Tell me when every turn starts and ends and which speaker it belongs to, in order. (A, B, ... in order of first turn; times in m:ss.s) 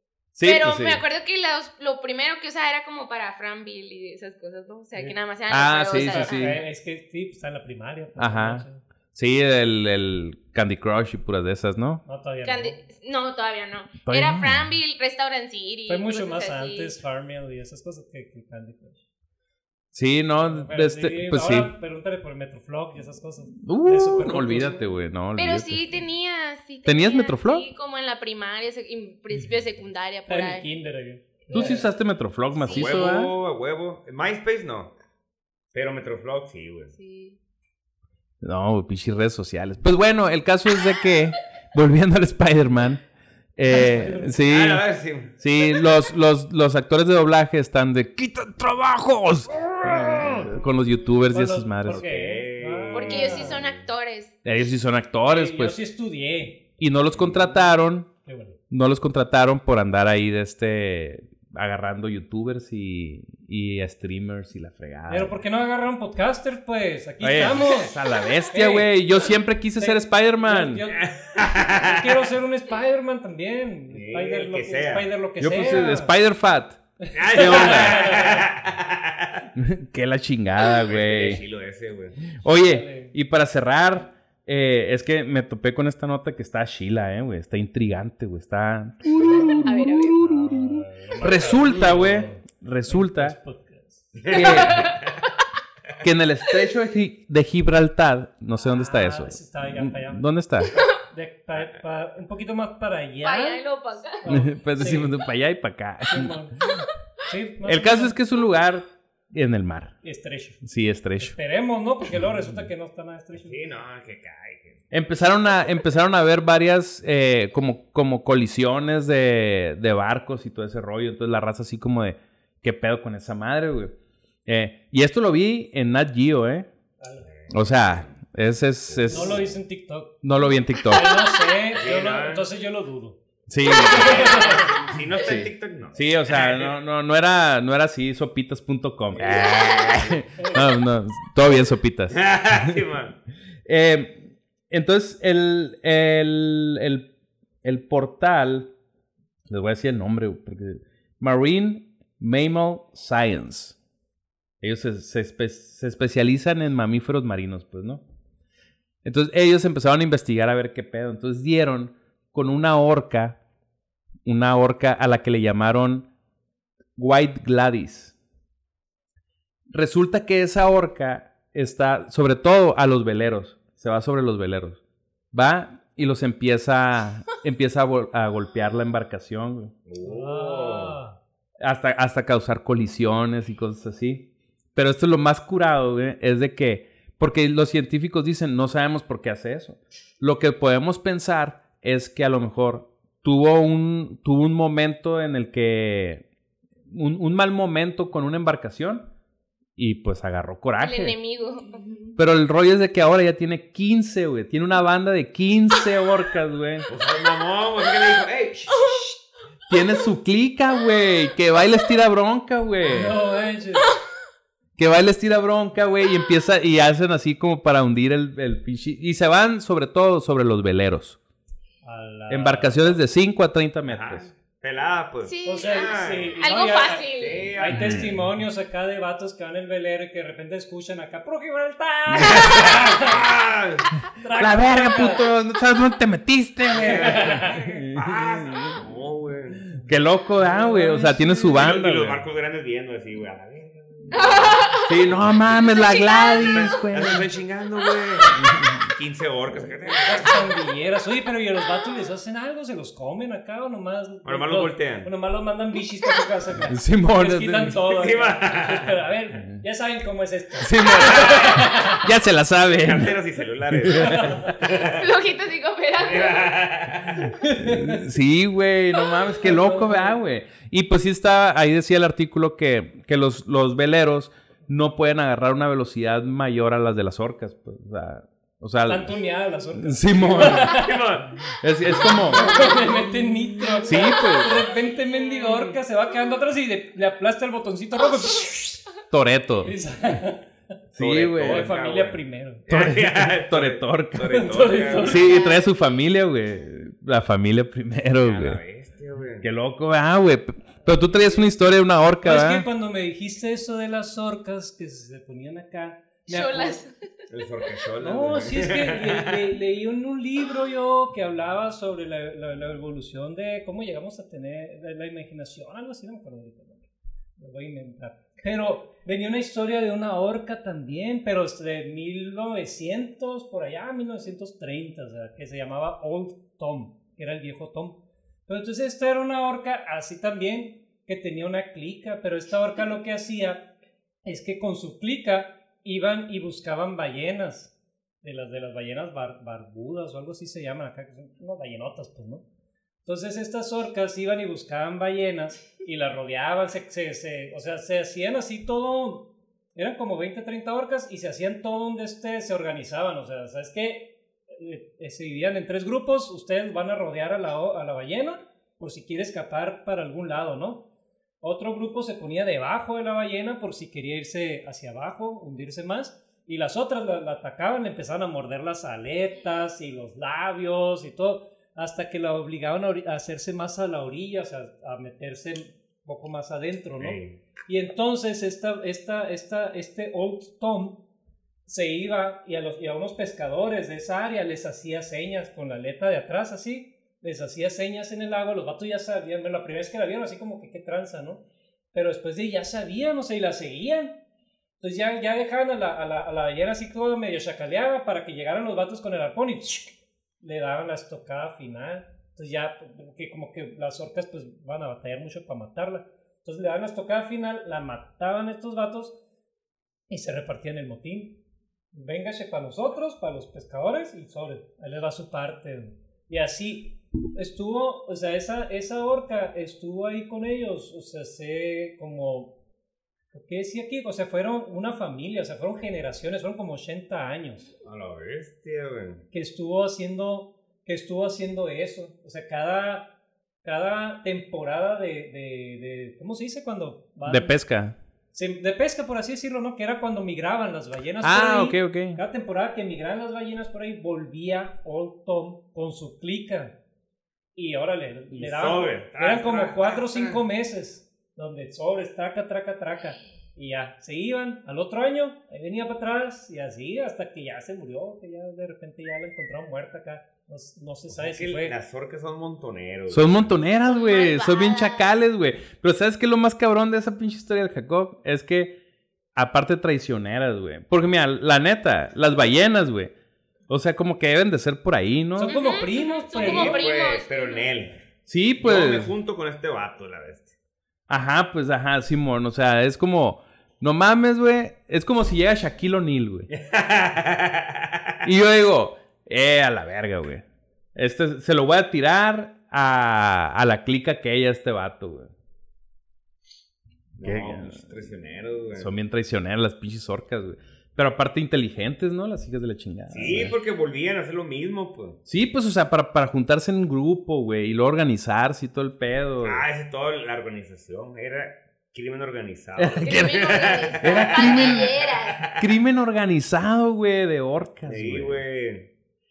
0:00.4-0:01.0 A
0:00.4-0:06.6 B
0:05.5-0:06.6 A
0:05.9-0:08.8 C
0:08.2-0:12.0 A
0:12.0-0:12.8 C
0:12.4-0:16.9 B
0:14.0-0:14.8 A
0:15.9-0:19.0 C
0:19.9-0:21.7 A
0:20.4-0:24.9 C
0:23.6-0:25.8 A
0:25.4-0:30.7 B
0:26.8-0:27.7 A
0:30.3-0:31.9 C
0:31.5-0:33.3 A
0:32.6-0:33.0 B
0:32.6-0:34.9 D
0:35.7-0:36.9 D
0:36.9-0:37.4 B
0:38.4-0:43.0 A
0:43.6-0:44.8 A
0:43.7-0:44.4 C
0:44.4-0:45.4 D
0:45.4-0:52.0 A
0:50.0-0:50.5 D
0:51.3-0:53.6 C
0:51.9-0:53.9 D
0:52.9-0:54.3 B
0:54.4-0:55.8 A
0:55.3-0:56.7 C
0:56.8-0:58.1 A
0:57.2-0:58.6 C
0:58.7-1:05.3 A
1:05.1-1:07.9 C
1:07.2-1:10.8 A
1:08.5-1:09.0 C
1:09.8-1:16.2 C
1:11.0-1:12.3 D
1:13.9-1:15.1 D
1:15.4-1:16.8 A
1:17.0-1:18.5 C
1:17.1-1:19.5 D
1:17.3-1:18.1 A
1:19.6-1:21.4 A
1:20.8-1:22.2 D
1:22.4-1:33.4 A
1:22.6-1:23.1 C
1:29.2-1:29.6 D
1:29.6-1:30.2 B
1:30.2-1:32.0 D
1:30.6-1:34.2 C
1:34.2-1:35.0 D
1:34.3-1:35.0 A
1:34.3-1:35.1 B
1:36.0-1:40.7 A
1:38.7-1:43.6 C
1:43.2-1:44.2 B
1:44.2-1:45.2 C
1:44.3-1:46.8 A
1:46.1-1:46.6 C
1:47.2-1:48.2 C
1:47.6-1:49.9 A
1:50.0-1:50.6 C
1:50.6-1:51.4 A
1:51.2-1:53.6 C
1:53.4-1:54.8 D
1:54.9-2:03.9 A
2:04.5-2:06.7 A
2:07.0-2:07.3 C
2:07.3-2:08.0 D
2:07.5-2:09.6 A
2:08.9-2:09.4 D
2:09.1-2:10.2 C
2:10.2-2:11.3 A
2:10.8-2:14.7 C
2:11.7-2:12.5 D
2:13.5-2:14.3 A
2:13.8-2:16.7 D
2:15.2-2:22.7 A
2:19.2-2:20.1 D
2:20.4-2:20.6 C
2:22.1-2:23.2 D
2:23.7-2:27.1 A
2:27.6-2:28.7 A
2:29.5-2:33.8 A
2:34.6-2:38.0 A
2:39.0-2:43.4 A
2:44.2-2:46.1 A
2:47.0-2:48.2 A
2:49.7-2:54.8 A
2:55.3-2:59.7 A
2:59.9-3:01.0 D
3:00.0-3:01.2 C
3:01.6-3:16.2 A
3:16.9-3:19.1 A
3:19.8-3:21.2 A
3:20.8-3:22.1 B
3:22.2-3:26.9 A
3:26.9-3:29.0 D
3:29.7-3:33.2 A
3:32.8-3:34.0 C
3:34.8-3:41.2 A
3:41.8-3:43.0 C
3:42.3-3:44.3 A
3:43.9-3:46.3 D
3:45.2-3:47.5 B
3:45.4-3:53.2 C
3:47.2-3:48.0 D
3:47.7-3:48.2 A
3:52.2-3:53.9 D
3:54.2-3:55.3 C
3:54.4-3:58.8 A
3:56.7-3:59.7 D
3:56.8-3:57.7 C
3:59.8-4:02.2 A
4:00.4-4:01.5 C
4:01.4-4:04.7 D
4:04.1-4:04.9 B
4:04.8-4:07.3 A
4:05.7-4:06.6 B
4:06.3-4:10.4 D
4:08.4-4:08.8 A
4:10.0-4:22.1 C
4:14.2-4:15.1 D
4:16.7-4:17.8 A
4:17.8-4:19.0 D
4:20.6-4:23.1 A
4:22.7-4:25.1 D
4:23.7-4:24.4 A
4:24.0-4:24.5 C
4:24.6-4:26.5 B
4:26.0-4:27.3 D
4:27.4-4:28.1 C
4:27.6-4:39.1 A
4:29.4-4:30.2 C
4:38.8-4:41.0 C
4:39.8-4:40.8 A
4:40.5-4:41.4 D
4:41.5-4:42.7 A
4:42.0-4:48.8 C
4:43.8-4:44.6 A
4:45.2-4:45.7 B
4:49.1-4:49.7 A
4:49.6-4:50.5 C
4:51.0-4:51.7 A
4:51.0-4:55.3 D
4:51.4-4:52.7 C
4:52.7-4:54.4 A
4:54.2-4:55.4 C
4:55.0-4:58.6 A
4:55.2-4:55.6 B
4:58.2-4:59.5 D
4:59.4-5:02.7 A
5:02.2-5:06.8 C
5:06.3-5:07.3 B
5:07.3-5:09.5 D
5:08.0-5:33.7 C
5:34.2-5:42.4 C
5:43.0-6:00.8 C
6:01.4-6:21.0 C
6:17.0-6:17.4 D
6:21.7-6:34.2 C
6:34.8-6:49.2 C
6:50.1-6:51.4 C
6:51.9-7:02.5 C
7:03.3-7:07.7 C
7:07.8-7:09.2 D
7:09.3-7:13.1 C
7:13.6-7:17.6 C
7:17.3-7:18.0 A
7:18.3-7:26.8 C
7:21.2-7:22.2 A
7:27.6-7:41.8 C
7:28.3-7:30.4 D
7:41.1-7:43.6 D
7:43.1-7:48.8 A
7:43.9-7:45.1 B
7:49.4-7:53.1 A
7:53.7-7:55.7 A
7:55.4-7:56.9 C
7:55.4-7:57.7 B
7:56.3-7:58.0 D
7:58.3-7:59.1 A
7:58.6-8:00.5 D
8:01.1-8:06.5 A
8:06.5-8:08.2 D
8:08.2-8:10.4 A
8:11.0-8:15.3 A
8:17.2-8:18.9 D
8:17.2-8:17.8 A
8:18.8-8:23.6 A
8:23.1-8:25.2 D
8:25.3-8:29.7 A
8:29.4-8:35.6 D
8:32.8-8:38.4 A
8:33.0-8:35.5 B
8:37.9-8:38.9 D